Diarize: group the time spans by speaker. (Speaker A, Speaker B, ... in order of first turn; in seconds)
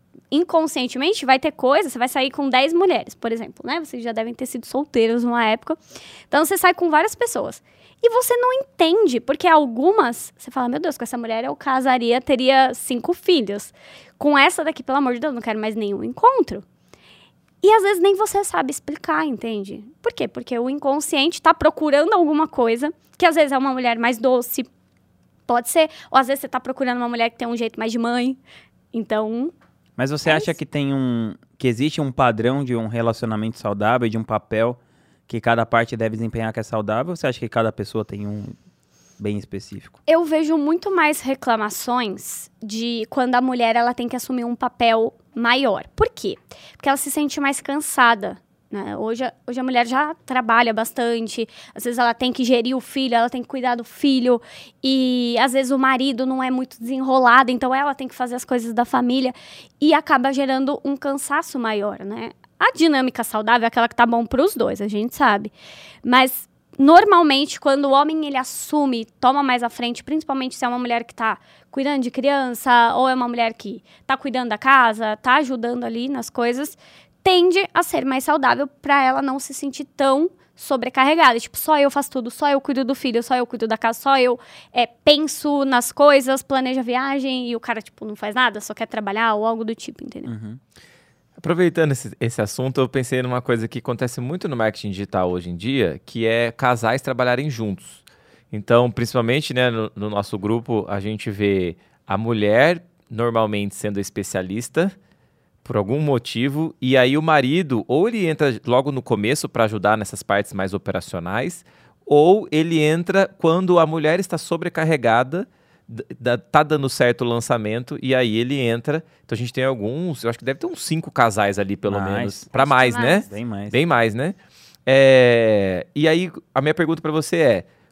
Speaker A: 0.3-5.8, 6.3-16.6, 17.6-24.7, 25.5-28.4, 28.9-29.5, 30.2-30.5, 40.0-65.5, 66.0-90.3, 122.5-123.2
Speaker B: 30.0-38.5, 39.2-40.0, 90.2-90.6, 121.9-122.5, 123.2-123.8
Speaker C: 91.4-104.9, 105.6-127.7